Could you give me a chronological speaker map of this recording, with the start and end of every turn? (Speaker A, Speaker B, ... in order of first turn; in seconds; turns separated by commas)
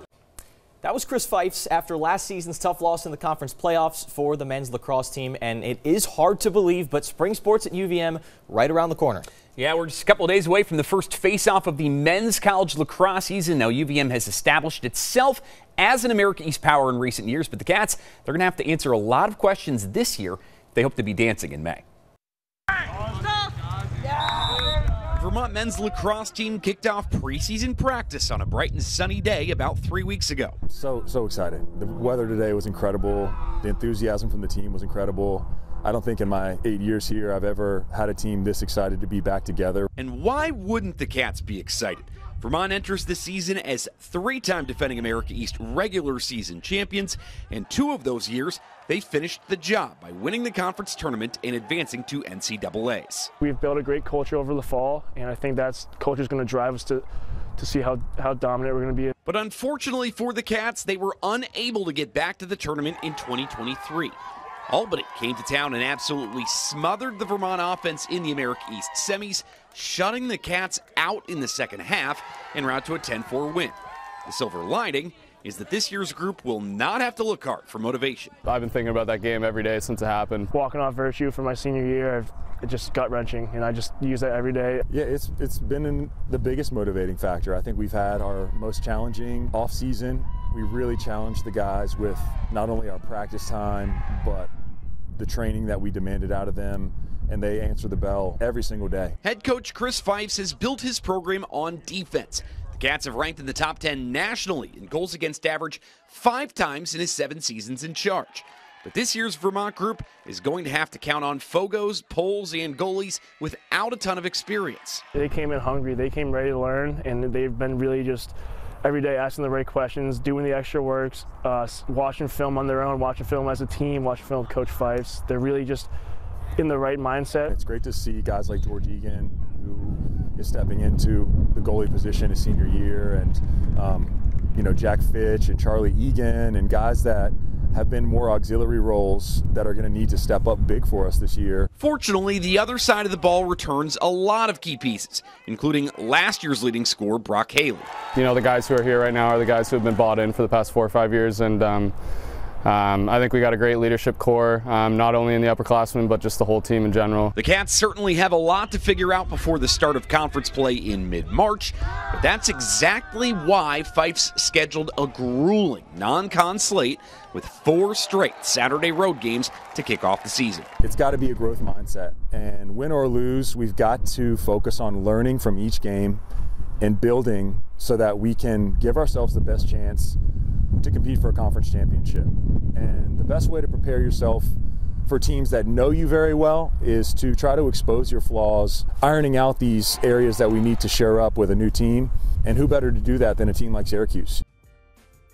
Speaker A: 0.8-9.3, Speaker B: 9.6-21.8, Speaker B: 25.1-30.6, Speaker C: 30.7-39.9, Speaker B: 40.0-53.3, Speaker D: 53.4-57.0, Speaker D: 57.6-59.1, Speaker B: 59.2-64.2, Speaker B: 64.7-78.4, Speaker E: 78.5-80.5, Speaker D: 80.5-84.9, Speaker C: 84.9-94.5, Speaker C: 95.1-99.2, Speaker B: 99.2-115.0, Speaker D: 115.1-125.9, Speaker D: 126.6-127.5, Speaker C: 127.5-141.7, Speaker B: 141.8-147.9, Speaker E: 148.2-151.9, Speaker E: 152.6-157.3, Speaker B: 157.4-170.7, Speaker C: 170.8-176.2, Speaker C: 176.8-180.2, Speaker C: 180.8-194.4